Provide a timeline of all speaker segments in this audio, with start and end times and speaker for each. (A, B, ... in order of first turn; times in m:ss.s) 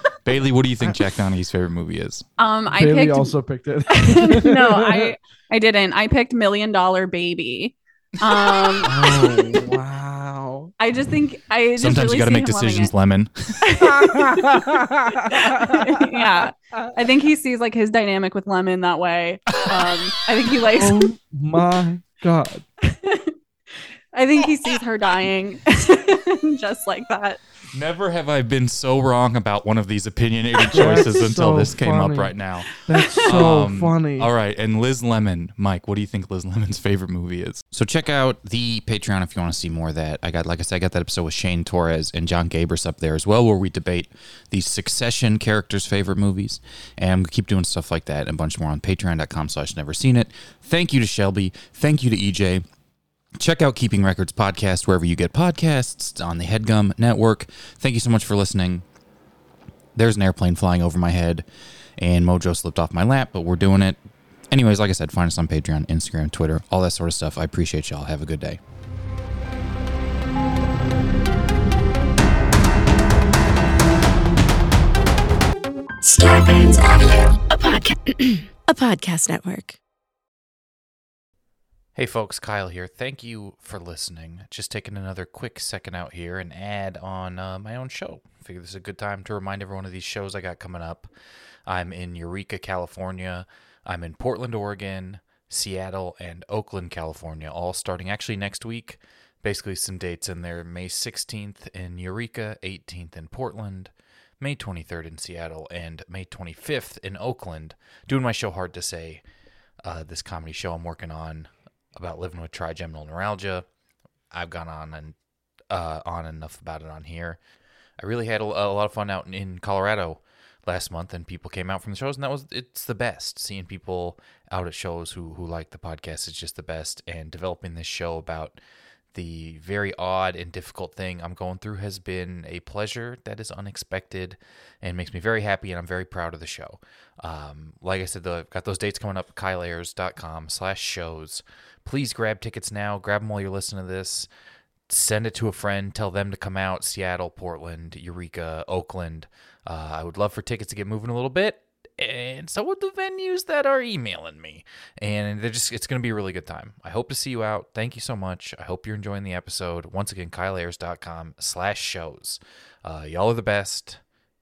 0:00.2-0:02.2 A
0:02.4-0:03.4 B
0:02.7-0:05.1 C
0:03.9-0:08.9 B
0:08.8-0:10.7 C
0:08.8-0:09.6 A
0:10.8-0:12.9 B
0:11.8-0:14.8 A
0:13.6-0:14.7 B
0:13.8-0:16.4 C
0:15.3-0:21.0 B
0:19.6-0:20.1 A
0:20.8-0:22.6 C
0:22.9-0:23.3 B
0:24.1-0:27.4 B
0:27.7-0:32.7 A
0:30.7-0:34.3 C
0:32.9-0:33.2 B
0:33.2-0:52.6 A
0:53.4-0:58.8 A
0:59.9-1:01.4 A
1:02.0-1:04.0 A
1:04.5-1:08.6 A
1:16.0-1:19.8 D
1:21.9-1:31.1 A
1:31.7-1:49.2 A
1:49.8-1:53.6 A
1:54.3-1:55.2 A
1:55.7-1:57.4 A
1:58.0-2:08.6 A
2:09.1-2:24.3 A
2:24.9-2:44.0 A